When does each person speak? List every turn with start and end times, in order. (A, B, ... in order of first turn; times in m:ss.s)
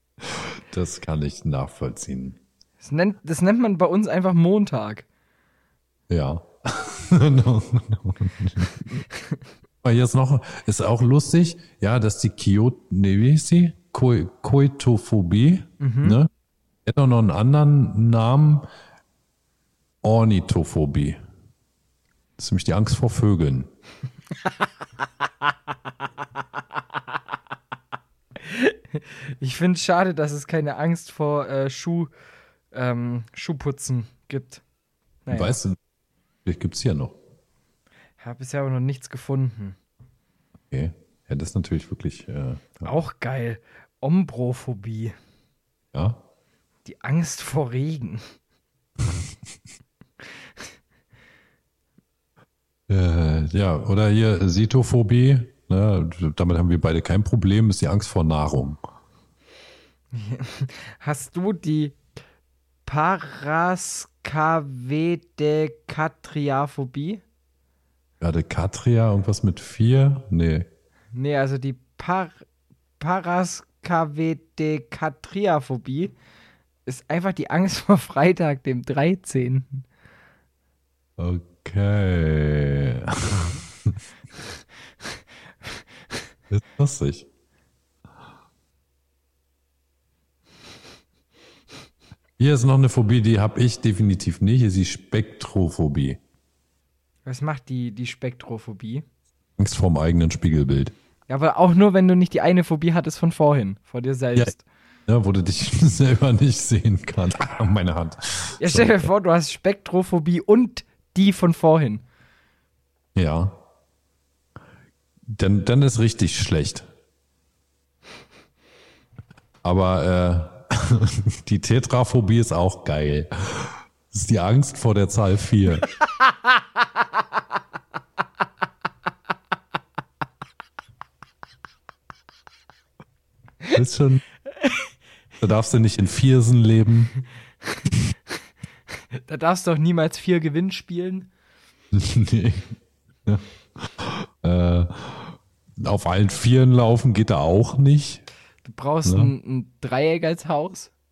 0:00.2-0:02.4 A
0:02.8-0:05.1 B
0:06.1-0:08.9 A
0:09.8-0:16.3 A
0:15.8-0:16.2 B
0:16.9-0:18.7 A
0:20.0-0:21.2 A
0:22.4-0:23.7 A
0:28.4-0:32.1 B
0:32.7-0:34.6 B
0:35.3-0:35.6 B
0:35.3-0:35.8 A
0:36.5-0:37.2 A
0:38.2-0:39.8 B
0:40.7-0:42.9 A
0:42.8-0:45.1 B
0:45.9-0:46.2 A
0:46.8-0:48.2 B
0:52.9-0:58.8 A
1:00.1-1:02.0 B
1:02.9-1:07.2 B
1:08.2-1:10.7 A
1:11.1-1:12.4 B
1:13.0-1:16.2 B
1:16.9-1:19.8 B
1:21.2-1:24.0 A
1:26.5-1:27.3 A
1:32.4-1:36.2 A
1:37.3-1:39.0 B
1:39.6-1:40.9 A
1:41.3-1:44.6 B
1:45.1-1:49.1 A
1:48.6-1:52.0 B
1:53.2-1:53.6 A
1:55.3-1:56.9 A
1:59.6-2:05.9 A
2:13.7-2:14.2 A
2:15.4-2:17.1 A
2:19.2-2:21.3 B
2:21.9-2:22.7 A
2:23.3-2:28.2 A
2:28.6-2:30.9 B
2:29.0-2:29.3 A